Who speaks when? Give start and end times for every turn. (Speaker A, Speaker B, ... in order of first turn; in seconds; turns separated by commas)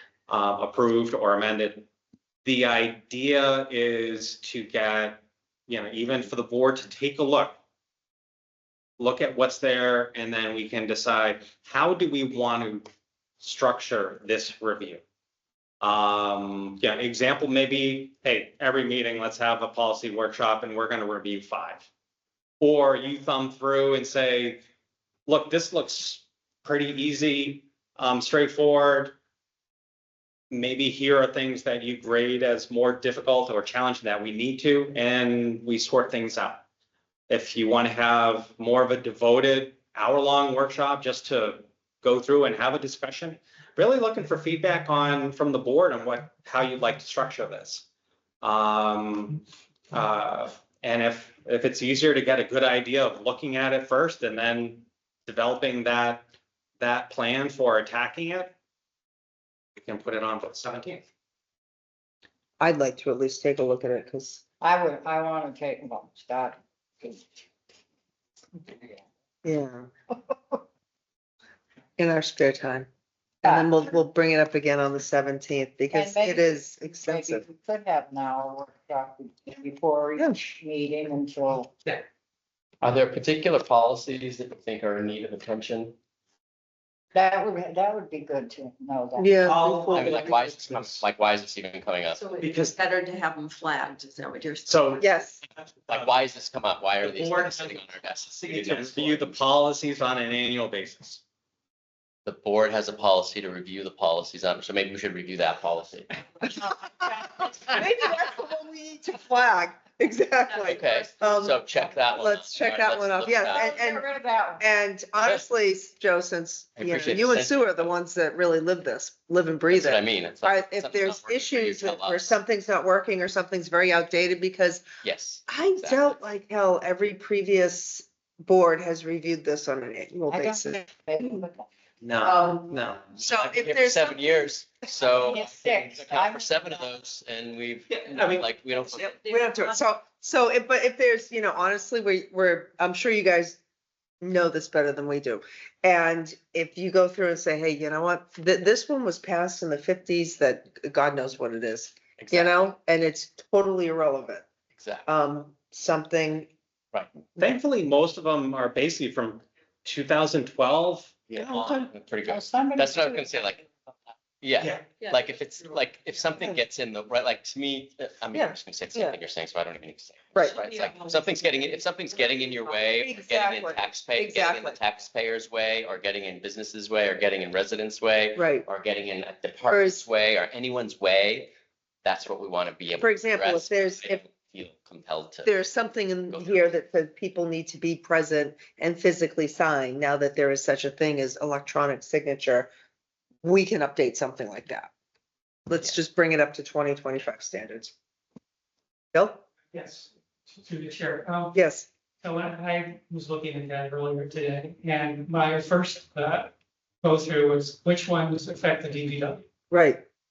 Speaker A: 0.3-1.9, Speaker A: 2.4-7.6, Speaker A: 9.0-12.9, Speaker A: 13.4-15.0, Speaker A: 15.8-21.9, Speaker A: 22.6-24.6, Speaker A: 25.3-29.2, Speaker A: 30.5-36.6, Speaker A: 37.3-47.9, Speaker A: 48.4-49.4, Speaker A: 49.9-56.3, Speaker A: 56.8-58.5, Speaker A: 59.8-61.0, Speaker B: 62.6-64.4, Speaker C: 64.6-67.3, Speaker C: 68.6-69.0, Speaker B: 69.4-69.9, Speaker B: 72.0-72.9, Speaker B: 73.4-77.4, Speaker C: 73.4-73.7, Speaker C: 75.9-81.7, Speaker D: 82.8-86.0, Speaker C: 87.1-89.7, Speaker B: 89.2-90.3, Speaker A: 89.5-91.1, Speaker D: 89.9-92.2, Speaker E: 92.1-94.9, Speaker A: 92.4-92.7, Speaker A: 94.7-95.0, Speaker B: 95.0-95.4, Speaker D: 95.9-99.3, Speaker A: 97.0-97.8, Speaker A: 98.4-101.2, Speaker D: 102.3-106.1, Speaker C: 106.7-107.1, Speaker B: 107.7-114.1, Speaker D: 110.6-113.7, Speaker C: 113.5-114.7, Speaker B: 114.6-124.8, Speaker D: 116.8-117.9, Speaker D: 119.7-122.4, Speaker D: 125.0-126.2, Speaker B: 125.5-130.8, Speaker C: 130.3-131.7, Speaker A: 132.0-133.1, Speaker E: 132.3-132.8, Speaker B: 133.1-134.5, Speaker D: 133.2-139.2, Speaker C: 135.1-136.9, Speaker A: 137.9-138.5, Speaker B: 139.0-143.6, Speaker E: 139.2-139.8, Speaker B: 144.2-154.5, Speaker D: 152.2-152.7, Speaker D: 154.8-155.1, Speaker B: 155.1-156.5, Speaker A: 157.4-161.2, Speaker D: 161.3-163.6, Speaker B: 161.3-161.9, Speaker C: 162.3-163.7, Speaker D: 164.4-181.5, Speaker B: 168.3-169.2, Speaker B: 170.3-170.6, Speaker E: 170.6-171.4, Speaker B: 173.0-174.8, Speaker B: 178.3-178.7, Speaker B: 179.7-180.0, Speaker D: 182.0-185.6, Speaker B: 183.0-184.2, Speaker B: 185.4-192.7, Speaker D: 186.3-186.8, Speaker B: 193.4-194.9, Speaker B: 195.7-197.9, Speaker B: 199.1-199.4, Speaker F: 199.7-200.1, Speaker F: 200.7-201.5, Speaker B: 201.5-201.9, Speaker F: 202.3-206.5, Speaker F: 207.1-209.4, Speaker B: 209.7-210.1